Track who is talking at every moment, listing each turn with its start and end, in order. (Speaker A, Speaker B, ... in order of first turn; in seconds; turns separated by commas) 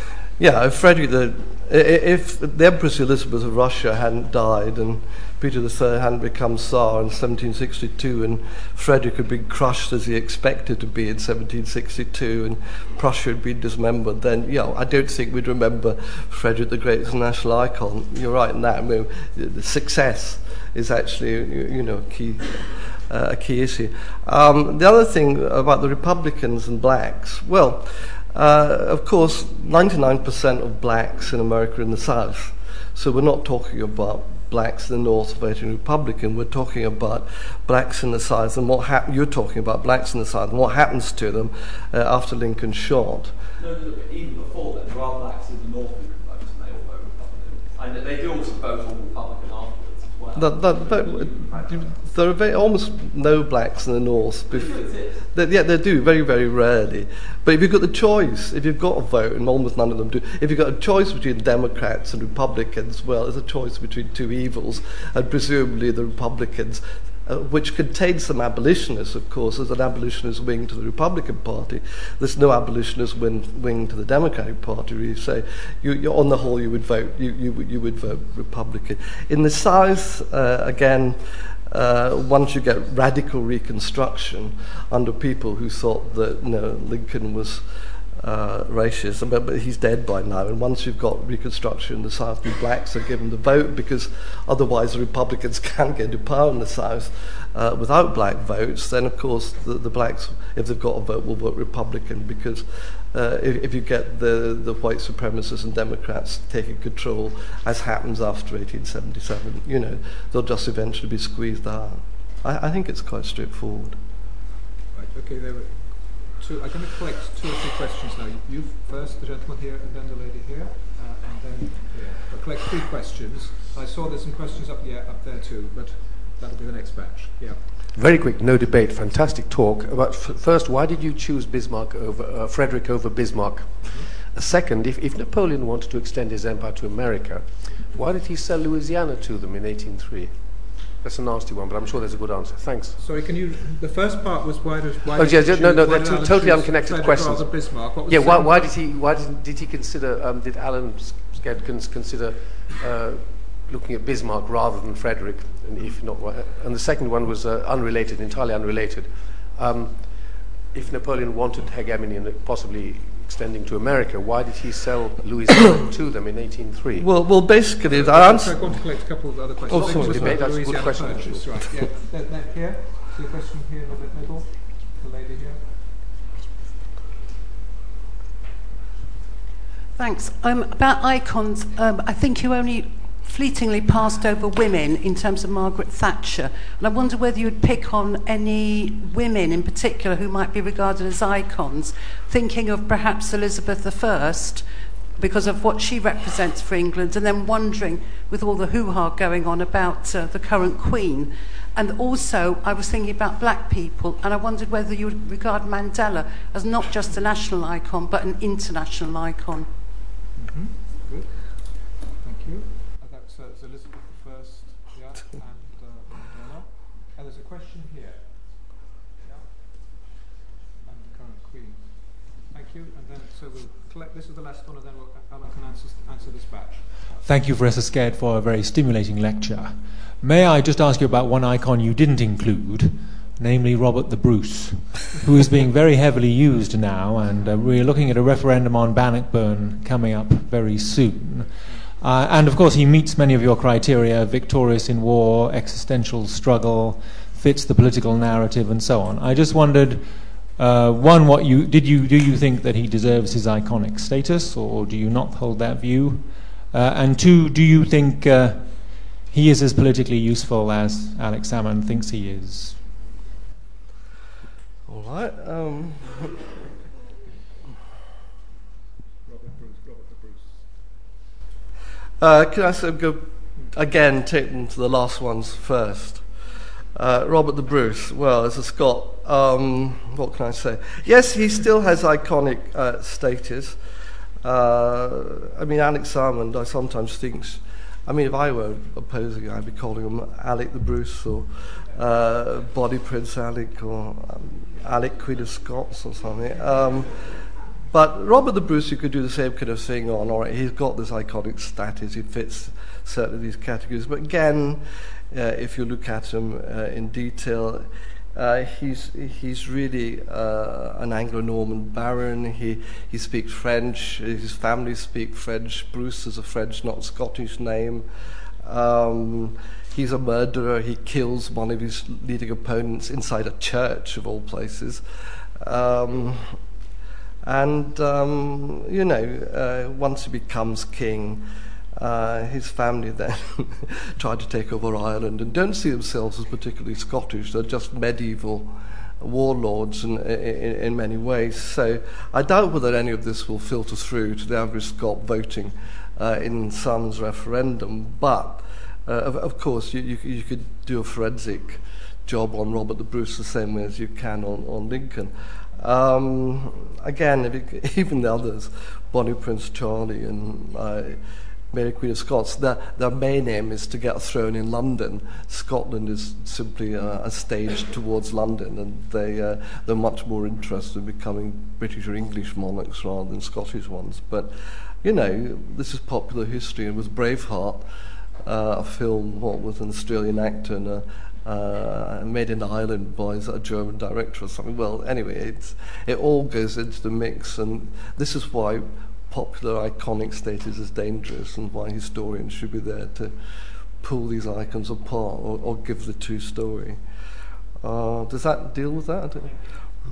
Speaker A: 0.4-43.3, Speaker B: 43.6-52.0, Speaker A: 50.4-87.6, Speaker B: 54.5-55.1, Speaker A: 88.2-114.0, Speaker C: 114.9-127.6, Speaker D: 127.9-143.0, Speaker C: 143.0-148.7, Speaker D: 145.1-167.1, Speaker A: 167.0-168.8, Speaker C: 167.8-175.6, Speaker D: 169.7-171.7, Speaker A: 169.7-170.8, Speaker E: 180.0-194.7, Speaker E: 195.2-209.7, Speaker C: 210.4-218.5, Speaker C: 219.2-219.5, Speaker C: 220.8-227.2, Speaker F: 227.2-262.8, Speaker A: 264.9-266.4, Speaker C: 269.3-270.6, Speaker A: 272.2-276.2, Speaker A: 276.9-283.8, Speaker A: 284.4-297.2, Speaker A: 297.9-318.1, Speaker A: 318.6-325.0, Speaker A: 325.6-326.6, Speaker A: 327.4-361.2, Speaker A: 361.7-374.5, Speaker A: 375.0-377.8, Speaker A: 378.4-393.3, Speaker A: 394.0-397.0, Speaker A: 397.8-399.5